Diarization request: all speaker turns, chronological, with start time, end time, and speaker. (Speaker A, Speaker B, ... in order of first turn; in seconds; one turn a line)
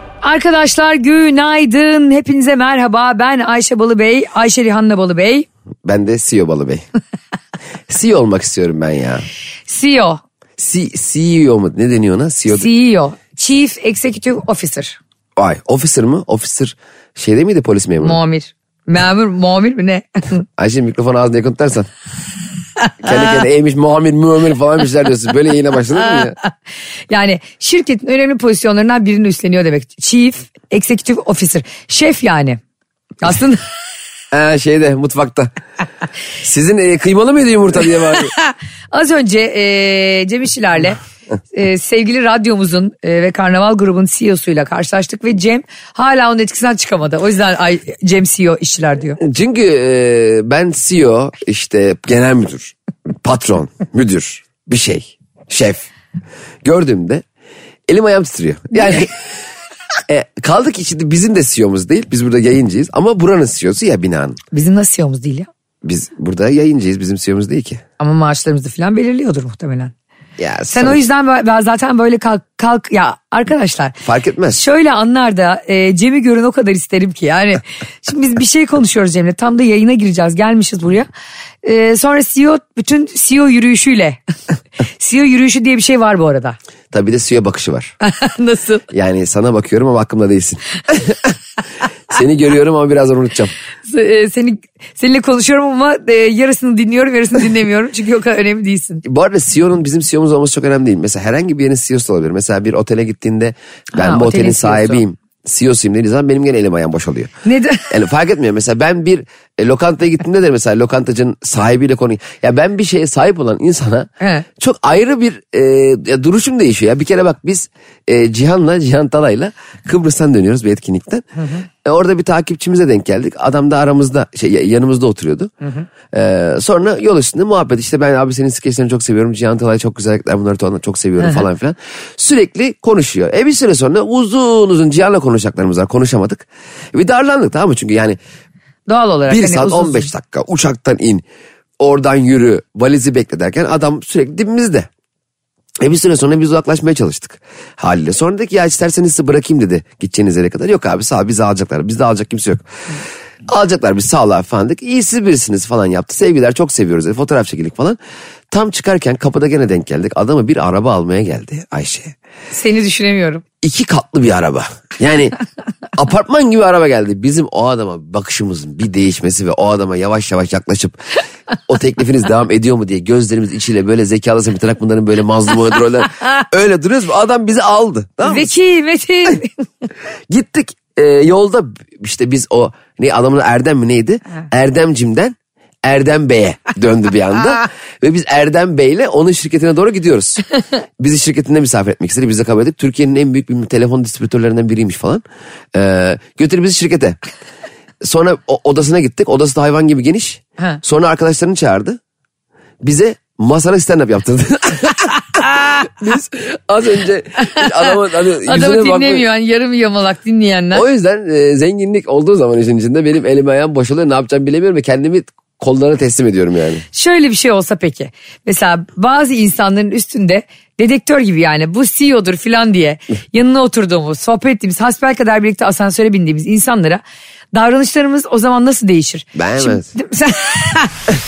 Speaker A: 0.2-5.5
Speaker B: 5.8-6.8
Speaker B: 7.9-9.2
Speaker A: 9.7-10.2
Speaker B: 10.6-12.7
Speaker A: 12.5-15.0
Speaker B: 15.4-18.2
Speaker A: 18.0-20.4
Speaker B: 20.6-21.9
Speaker B: 23.0-26.4
Speaker A: 27.1-32.6
Speaker A: 33.2-33.6
Speaker B: 34.3-35.5
Speaker B: 36.4-38.3
Speaker A: 38.4-41.0
Speaker A: 41.5-49.2
Speaker B: 49.2-55.9
Speaker B: 56.6-57.2
Speaker B: 57.9-59.3
Speaker B: 60.1-64.4
Speaker A: 64.5-65.5
Speaker B: 65.8-67.8
Speaker A: 68.0-69.9
Speaker B: 70.4-71.0
Speaker A: 70.7-73.9
Speaker B: 74.0-74.6
Speaker A: 74.5-81.1
Speaker A: 81.6-84.2
Speaker A: 85.0-86.6
Speaker B: 86.9-87.9
Speaker A: 88.0-88.8
Speaker B: 88.9-91.3
Speaker B: 92.1-93.5
Speaker A: 93.9-99.0
Speaker B: 99.0-107.3
Speaker A: 103.9-105.0
Speaker A: 107.4-107.9
Speaker B: 107.9-125.5
Speaker A: 114.2-114.5
Speaker A: 121.4-121.6
Speaker B: 126.1-138.2
Speaker A: 138.9-140.1
Speaker B: 139.3-141.2
Speaker B: 141.8-144.9
Speaker B: 145.8-152.7
Speaker B: 153.5-158.0
Speaker B: 158.5-162.1
Speaker A: 162.5-163.4
Speaker B: 163.6-165.3
Speaker B: 165.9-171.2
Speaker B: 171.7-178.5
Speaker A: 178.2-179.6
Speaker B: 180.3-190.4
Speaker B: 191.0-197.2
Speaker B: 198.0-202.0
Speaker B: 202.8-209.2
Speaker A: 207.5-207.9
Speaker A: 208.4-210.8
Speaker B: 210.7-216.8
Speaker A: 216.9-227.0
Speaker A: 227.5-230.9
Speaker B: 229.3-229.9